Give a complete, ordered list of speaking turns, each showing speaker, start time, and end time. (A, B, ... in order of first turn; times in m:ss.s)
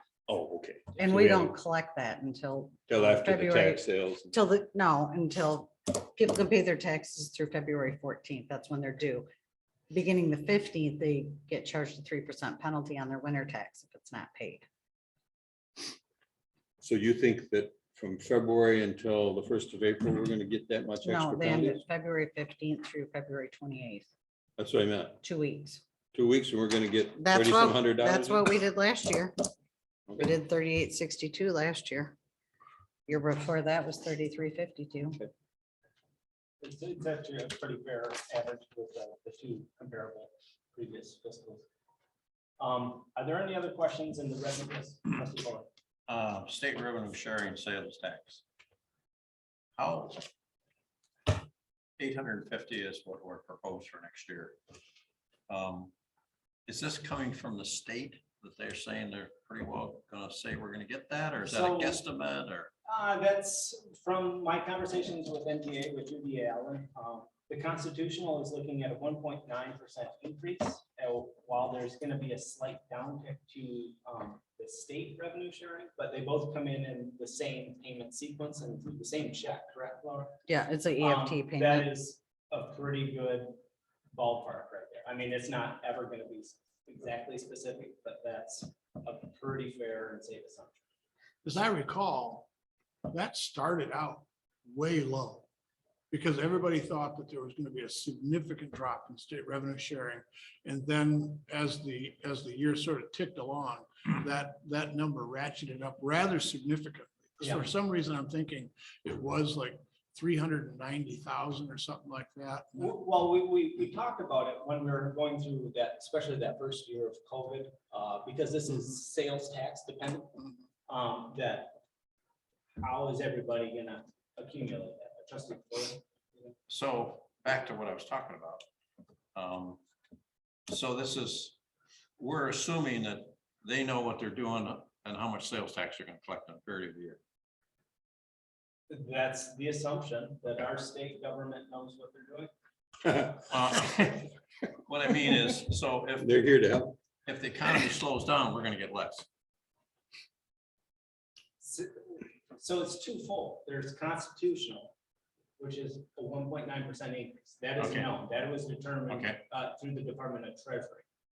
0:00.3-0:01.6 A
0:01.0-0:09.3 B
0:02.9-0:04.3 A
0:09.9-0:14.6 B
0:16.8-0:21.8 A
0:21.0-0:24.1 B
0:24.6-0:25.2 A
0:25.2-0:25.8 B
0:26.1-0:28.4 A
0:27.2-0:29.4 B
0:30.2-0:32.2 B
0:33.1-0:35.2 B
0:36.6-0:41.6 C
0:42.6-0:45.7 C
0:46.1-0:48.4 D
0:49.8-0:50.3 D
0:52.0-0:54.6 D
0:55.5-0:55.9 D
0:56.7-1:02.7 D
1:01.4-1:02.0 C
1:02.9-1:20.4 C
1:20.5-1:21.9 B
1:21.0-1:23.6 C
1:24.1-1:30.8 C
1:31.4-1:32.5 E
1:33.1-1:35.5 E
1:36.1-1:53.0 E
1:47.4-1:47.7 C
1:52.8-2:01.8 C
2:02.8-2:06.5 C
2:06.7-2:08.6 D
2:09.4-2:09.8 D
2:10.7-2:11.6 D
2:12.2-2:17.2 D
2:18.9-2:22.5 C
2:23.0-2:23.4 A
2:23.5-2:24.3 D
2:24.9-2:26.5 D
2:26.2-2:27.0 A
2:27.3-2:29.2 D
2:31.6-2:34.9 C
2:35.6-2:41.0 C
2:37.8-2:38.1 D
2:39.1-2:39.4 D